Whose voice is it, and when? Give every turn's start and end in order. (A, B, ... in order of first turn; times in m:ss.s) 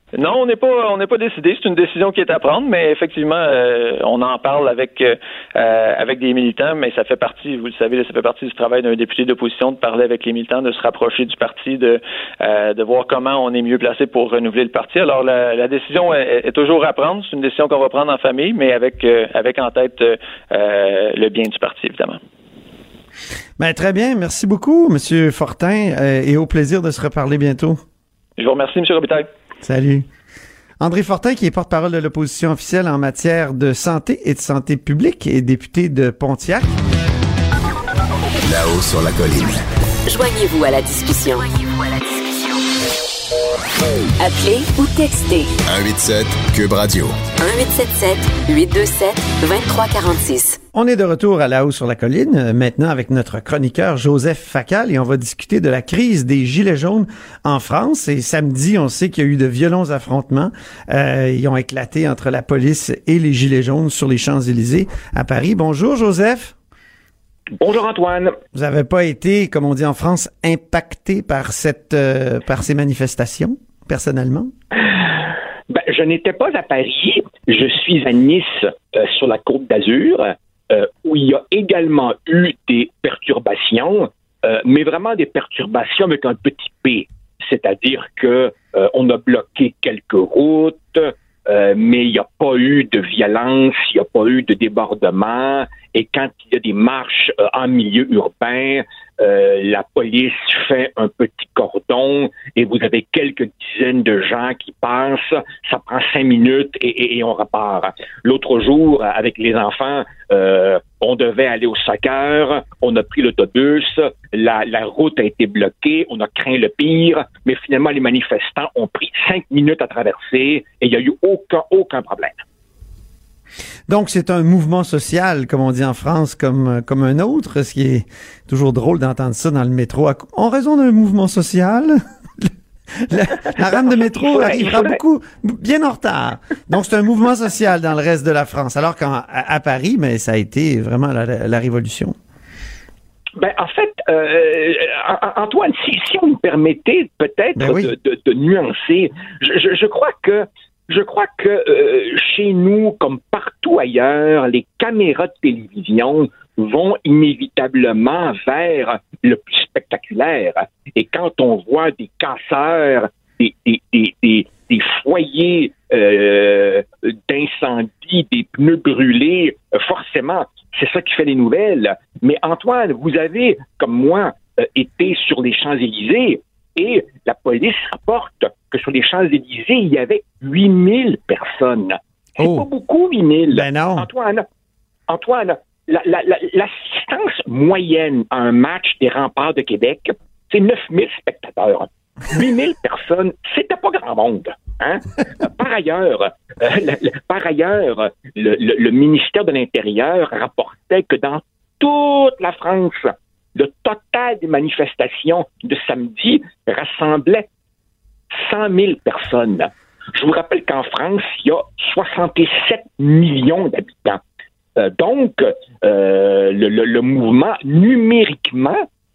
0:00.2-0:22.2 A
0:23.6-0:27.8 B
0:28.4-0:29.3 A
0:29.6-0:30.1 B
0:30.8-0:36.7 B
0:38.4-0:39.6 C
0:40.1-0:42.6 D
0:44.2-0:45.6 D
0:45.7-0:47.2 C
0:47.4-0:50.6 D
0:50.7-1:06.5 B
1:07.6-1:08.4 E
1:08.5-1:14.5 B
1:15.7-2:02.4 E
2:03.9-2:22.2 B
2:14.2-2:15.0 E
2:23.4-3:04.5 E
2:27.6-2:27.9 B
3:02.4-3:02.6 B
3:03.5-3:04.1 B
3:05.1-3:27.5 E
3:28.3-3:34.2 E
3:34.8-3:38.8 E